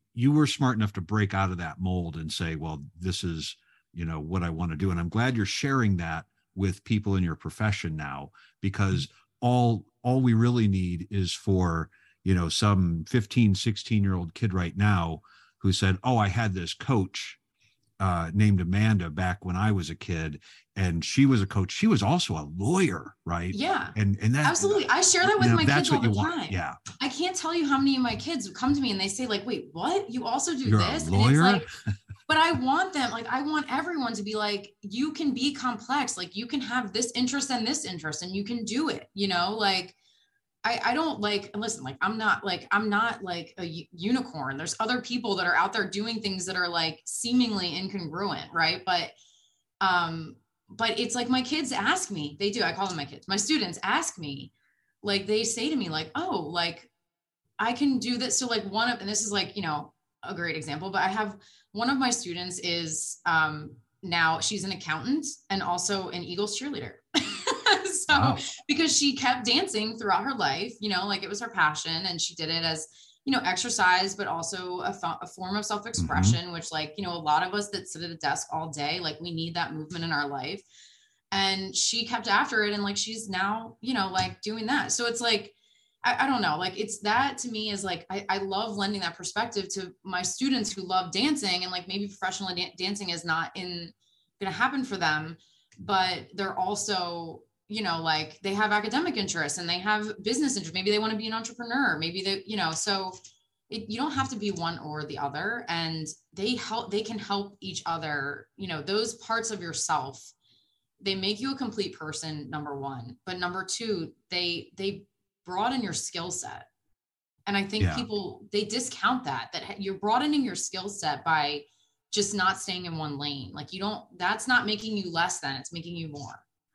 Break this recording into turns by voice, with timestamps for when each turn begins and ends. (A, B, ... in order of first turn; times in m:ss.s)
0:00.1-0:17.4 A
0:18.0-0:26.8 A
0:23.5-0:31.7 B
0:30.6-0:31.7 A
0:32.3-0:40.0 B
0:40.6-0:49.1 B
0:49.8-0:56.9 B
0:57.6-1:20.6 B
1:08.1-1:08.4 A
1:16.0-1:16.4 A
1:21.3-1:43.2 B
1:43.7-1:50.3 B
1:51.0-1:56.7 B
1:57.5-2:06.4 B
1:57.8-1:58.1 A